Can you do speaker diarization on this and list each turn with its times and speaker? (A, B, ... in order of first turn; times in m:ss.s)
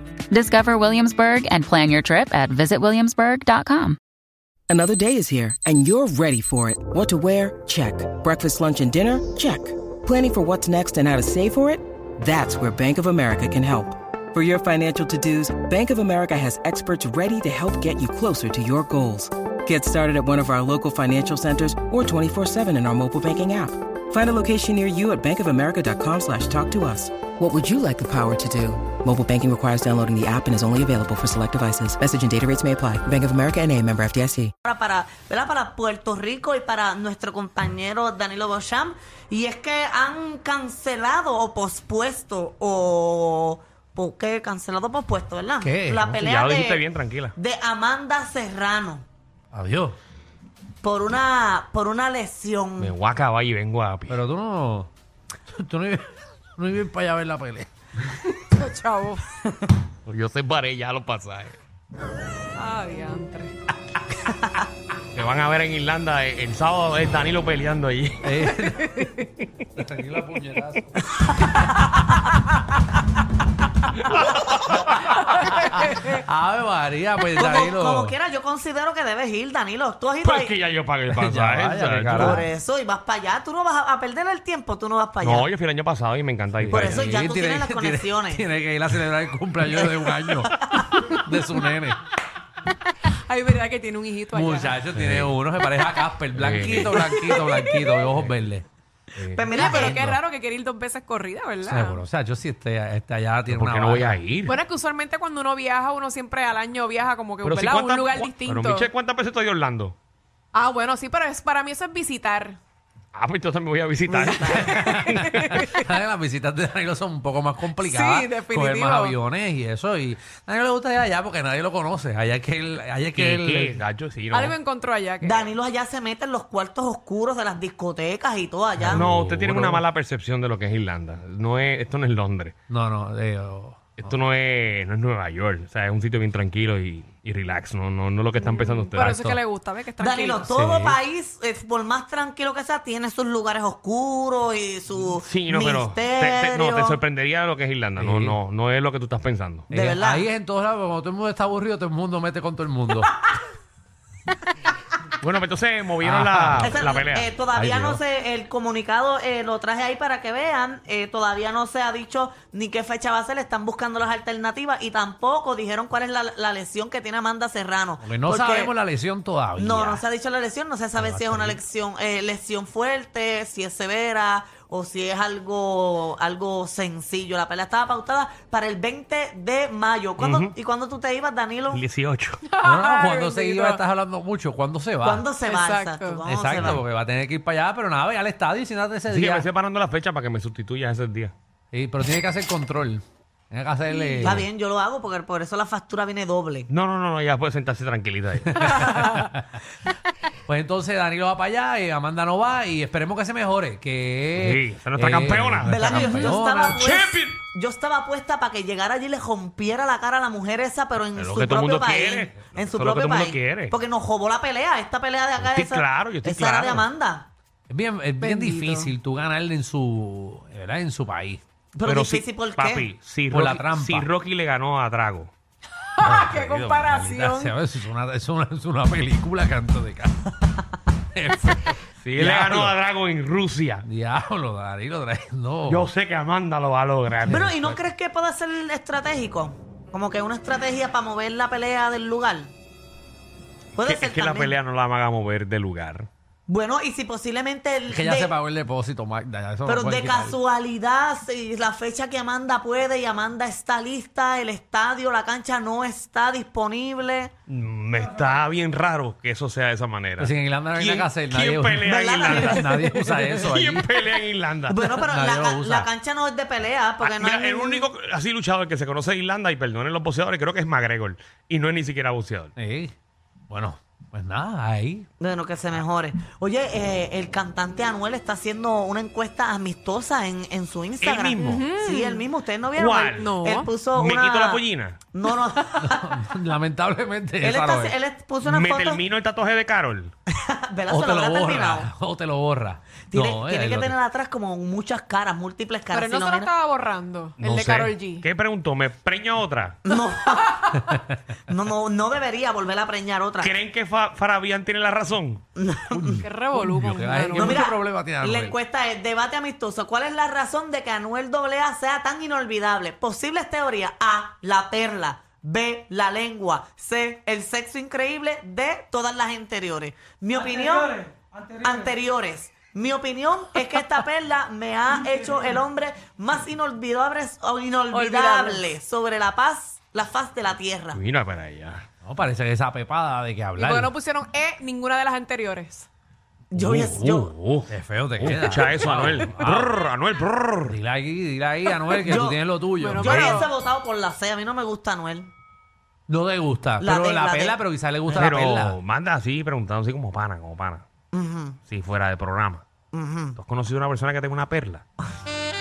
0:00.3-0:04.0 A
0:04.7-0:34.5 B
0:34.6-0:46.8 C
0:45.6-0:46.2 D
0:46.1-0:47.3 E
0:47.4-0:49.0 C
0:49.5-0:50.0 D
0:50.8-0:52.9 C
0:52.8-0:54.2 E
0:54.1-0:54.9 D
0:55.5-0:57.7 D
0:58.4-0:59.2 F
1:00.0-1:01.6 E
1:02.6-1:03.5 F
1:04.2-1:04.5 C
1:05.1-1:08.3 E
1:08.2-1:09.1 D
1:09.7-1:10.9 D
1:15.4-1:18.2 D
1:17.4-1:20.5 C
1:20.2-1:22.4 E
1:21.1-1:22.5 D
1:22.1-1:25.5 C
1:25.2-1:27.2 E
1:26.6-1:32.0 D
1:26.7-1:28.5 C
1:30.2-1:31.0 C
1:33.1-1:34.8 F
1:34.3-1:38.6 D
1:34.9-1:35.3 E
1:36.3-1:37.1 E
1:38.0-1:38.3 E
1:39.2-1:40.0 E
1:39.3-1:40.1 C
1:39.5-1:42.0 F
1:39.7-1:40.2 D
1:41.6-1:44.2 D
1:43.5-1:44.6 E
1:44.4-1:48.9 F
1:47.4-1:50.0 E
1:50.5-1:52.6 F
1:53.1-1:55.6 E
1:54.1-1:54.8 C
1:54.4-1:55.8 F
1:54.5-2:03.8 D
1:57.8-1:59.2 F
2:03.1-2:04.6 E
2:04.3-2:05.5 F
2:05.2-2:09.0 C
2:08.8-2:09.8 D
2:08.9-2:12.5 E
2:12.7-2:14.1 D
2:14.0-2:19.2 E
2:18.4-2:20.5 F
2:19.0-2:19.4 D
2:20.0-2:27.0 C
2:20.5-2:21.0 D
2:25.2-2:29.7 E
2:28.0-2:28.4 D
2:29.7-2:33.2 D
2:29.7-2:30.3 C
2:35.2-2:37.3 E
2:36.0-2:36.9 D
2:36.6-2:48.7 C
2:37.5-2:38.0 D
2:48.0-2:50.0 D
2:49.6-3:01.8 C
2:51.0-2:51.6 D
3:00.2-3:00.5 E
3:01.7-3:02.4 E
3:02.5-3:03.8 F
3:02.6-3:05.3 D
3:05.0-3:06.8 C
3:05.4-3:06.2 F
3:06.3-3:09.5 D
3:09.1-3:11.3 E
3:11.7-3:14.5 D
3:13.9-3:16.7 C
3:16.7-3:19.1 E
3:18.6-3:19.6 D
3:20.5-3:26.8 D
3:24.3-3:27.4 E
3:25.6-3:37.3 C
3:31.1-3:33.8 E
3:35.4-3:36.9 E
3:37.7-3:41.4 D
3:38.2-3:38.9 F
3:41.7-3:42.9 C
3:41.8-3:45.3 E
3:43.3-3:44.1 D
3:46.0-3:47.5 F
3:46.0-3:50.4 D
3:51.1-3:52.8 D
3:52.0-3:53.8 E
3:53.8-3:55.9 D
3:55.7-3:57.8 E
3:57.3-4:02.5 C
4:03.8-4:04.5 C
4:03.8-4:06.1 E
4:06.5-4:08.3 C
4:07.9-4:10.4 D
4:09.6-4:17.3 C
4:17.5-4:24.9 E
4:20.2-4:23.9 D
4:21.9-4:22.9 C
4:24.7-4:27.9 C
4:24.9-4:25.9 D
4:27.0-4:32.5 E
4:32.6-4:32.9 D
4:33.5-4:35.1 D
4:35.2-4:46.2 C
4:41.0-4:41.7 E
4:41.4-4:42.2 F
4:42.7-4:43.4 E
4:43.2-4:43.7 F
4:43.9-4:45.0 E
4:45.7-4:48.0 D
4:47.4-4:49.0 C
4:48.4-4:50.1 E
4:50.3-4:51.9 C
4:50.9-4:53.9 D
4:53.1-4:56.5 C
4:55.9-4:58.2 F
4:57.4-4:59.8 E
4:59.8-5:00.8 C
5:01.5-5:03.5 C
5:03.4-5:05.4 E
5:05.6-5:06.2 C
5:05.9-5:08.6 D
5:06.2-5:07.6 F
5:07.3-5:31.0 C
5:27.9-5:28.7 F
5:30.9-5:31.8 E
5:32.0-5:33.9 D
5:33.6-5:35.9 F
5:36.5-5:37.3 C
5:36.6-5:40.8 E
5:36.7-5:37.2 D
5:37.7-5:39.7 D
5:40.6-5:43.3 D
5:41.9-5:42.4 C
5:42.8-5:43.5 F
5:43.0-5:45.3 C
5:43.0-5:43.4 E
5:46.1-5:48.8 D
5:46.8-5:47.6 C
5:48.1-5:50.8 E
5:51.1-5:51.6 C
5:51.6-5:52.7 E
5:52.9-5:53.4 C
5:53.4-5:54.8 E